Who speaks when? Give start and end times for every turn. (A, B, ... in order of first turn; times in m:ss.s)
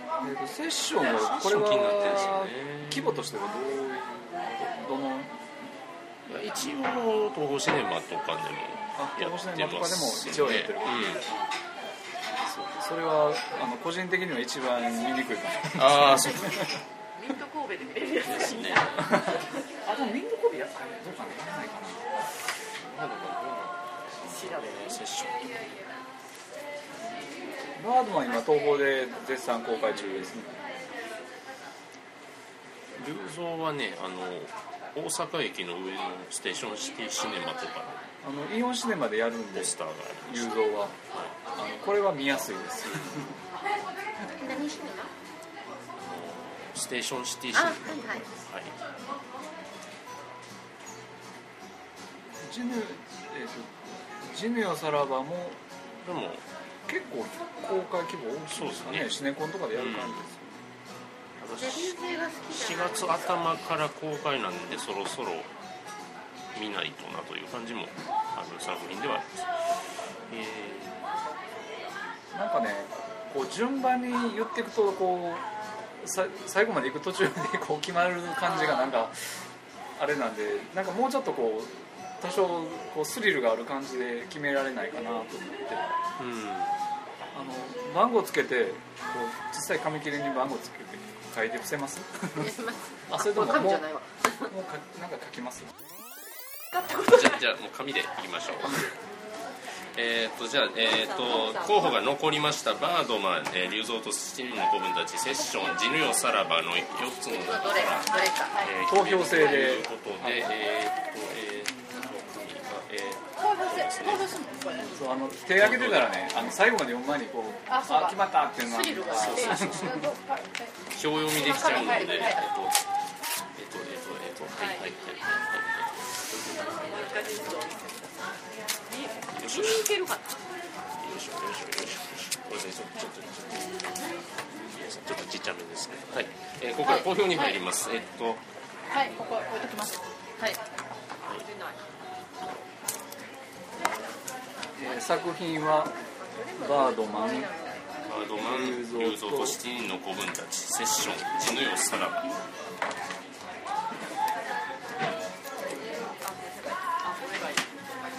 0:00.2-0:05.4 A
0:01.1-0:03.1 B
0:06.2-0:11.2 B
0:09.0-0:11.2 A
0:12.5-0:12.7 B
0:12.6-0:16.8 A
0:15.8-0:16.7 B
0:17.1-0:19.6 C
0:18.2-0:19.0 B
0:19.0-0:22.0 A
0:22.8-0:25.8 B
0:24.2-0:25.0 C
0:27.8-0:30.6 A
0:33.0-0:38.0 B
0:38.2-0:39.7 A
0:39.5-0:41.4 B
0:40.2-0:43.4 A
0:44.3-0:45.1 D
0:46.0-0:48.8 B
0:47.5-0:48.2 D
0:52.4-0:55.6 A
0:56.0-0:56.4 B
0:56.9-1:00.6 A
0:58.5-0:59.1 B
0:59.7-1:00.2 B
1:01.4-1:02.0 B
1:01.6-1:03.5 D
1:02.5-1:05.5 B
1:06.5-1:09.5 B
1:10.3-1:11.0 B
1:12.3-1:15.5 A
1:16.0-1:19.2 A
1:20.0-1:26.0 A
1:26.2-1:26.7 B
1:27.3-1:32.5 A
1:32.4-1:34.5 D
1:33.1-1:33.9 A
1:34.5-1:35.7 A
1:36.8-1:37.1 C
1:36.9-1:39.0 B
1:39.9-1:54.3 B
1:41.2-1:41.9 D
1:41.2-1:41.5 C
1:47.3-1:48.6 D
1:48.9-1:50.5 A
1:53.4-1:55.0 E
1:54.9-2:00.0 A
1:55.5-1:56.6 B
1:57.7-1:58.2 E
1:58.6-1:59.8 D
1:59.1-1:59.8 B
1:59.4-2:00.8 E
2:00.9-2:02.8 B
2:01.3-2:02.5 E
2:01.6-2:02.5 D
2:03.6-2:07.2 B
2:04.6-2:04.9 C
2:06.8-2:08.3 C
2:08.9-2:10.2 C
2:09.3-2:10.0 B
2:11.0-2:13.9 B
2:14.6-2:18.4 B
2:16.8-2:17.6 E
2:18.9-2:20.6 E
2:21.3-2:21.8 C
2:24.8-2:25.9 A
2:26.4-2:27.8 D
2:26.6-2:27.5 A
2:28.1-2:32.3 B
2:28.4-2:29.6 A
2:36.2-2:37.8 C